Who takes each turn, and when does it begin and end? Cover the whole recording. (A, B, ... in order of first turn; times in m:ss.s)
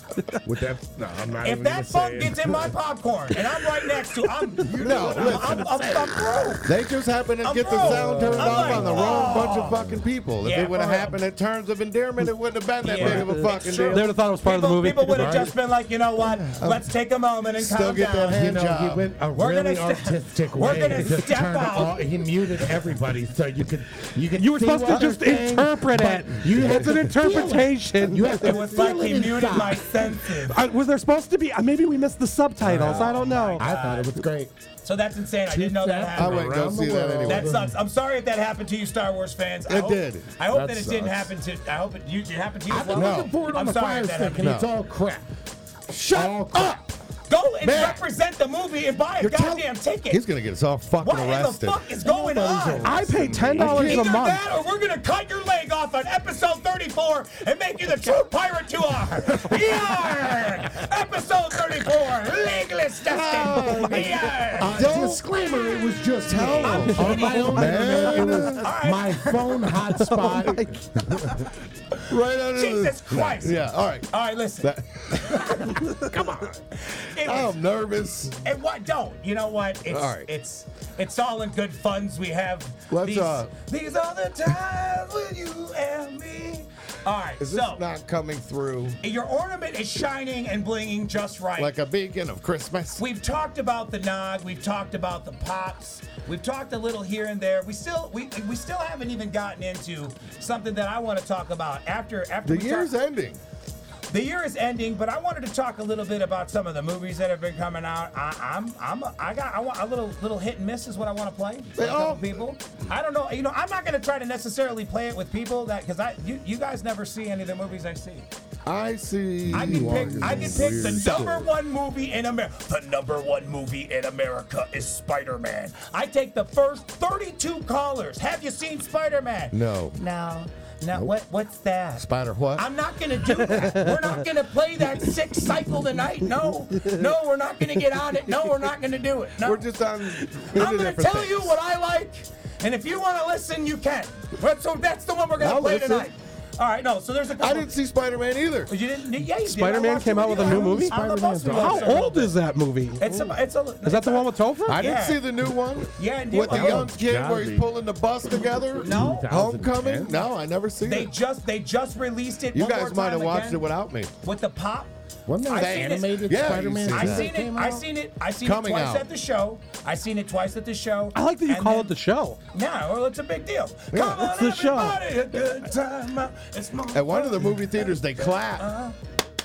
0:00.4-0:02.7 A
0:01.4-0:06.7 B
0:04.6-0:06.6 A
0:04.6-0:05.6 C
0:06.6-0:14.1 C
0:07.4-0:09.8 B
0:07.6-0:10.0 A
0:10.4-0:11.2 B
0:12.8-0:18.5 B
0:13.0-0:15.5 D
0:15.1-0:15.5 A
0:16.2-0:16.8 C
0:17.6-0:19.1 C
0:18.2-0:29.9 A
0:19.3-0:22.0 B
0:24.4-0:28.6 D
0:28.4-0:30.6 B
0:30.0-0:33.6 D
0:32.6-0:34.5 A
0:32.7-0:33.0 C
0:32.8-0:34.2 B
0:34.8-0:36.5 B
0:35.4-0:37.8 A
0:36.1-0:37.6 C
0:37.2-0:44.6 B
0:39.7-0:40.3 C
0:40.5-0:41.3 A
0:42.7-0:45.2 A
0:42.9-0:43.3 C
0:44.4-0:44.7 C
0:45.9-0:46.8 C
0:46.1-0:46.9 A
0:47.3-0:50.2 B
0:47.6-0:48.0 C
0:49.2-0:51.8 C
0:51.0-1:04.9 B
0:52.0-0:54.0 A
0:52.8-0:54.4 D
0:53.6-0:54.0 C
0:59.4-1:00.4 A
1:03.0-1:05.2 C
1:03.5-1:11.5 A
1:06.2-1:08.7 C
1:06.6-1:09.7 B
1:09.9-1:10.8 D
1:12.1-1:14.1 C
1:12.5-1:16.0 B
1:14.6-1:15.9 C
1:15.9-1:16.6 A
1:16.8-1:17.6 B
1:17.2-1:18.4 C
1:18.4-1:27.8 B
1:19.9-1:20.3 C
1:22.9-1:23.5 C
1:27.4-1:29.0 C
1:29.0-1:31.7 B
1:31.6-1:33.0 C
1:33.0-1:42.9 B
1:42.4-1:43.4 C
1:44.1-1:58.3 B
1:51.8-1:52.4 C
1:58.6-2:01.5 C
1:59.4-2:01.4 A
1:59.5-2:19.7 B
2:09.5-2:10.0 C
2:12.0-2:12.6 C
2:13.5-2:13.9 D
2:19.4-2:21.6 C
2:20.3-2:27.7 B
2:25.4-2:26.1 C
2:27.4-2:28.7 C
2:28.7-2:32.4 B
2:29.4-2:33.2 D
2:30.4-2:32.1 A
2:33.0-2:35.2 B
2:33.8-2:34.8 D
2:34.7-2:41.1 C
2:36.0-2:36.9 B
2:36.5-2:37.7 A
2:38.7-2:40.3 A
2:38.8-2:39.3 B
2:40.8-2:43.7 B
2:42.5-2:44.1 C
2:44.2-2:44.9 B
2:45.3-2:47.8 A
2:45.4-2:51.9 B
2:45.5-2:47.3 C
2:48.4-2:49.0 C
2:51.1-2:52.4 D
2:52.5-2:58.9 B
2:53.9-2:54.3 C
2:54.1-2:55.0 D
2:56.9-2:58.7 C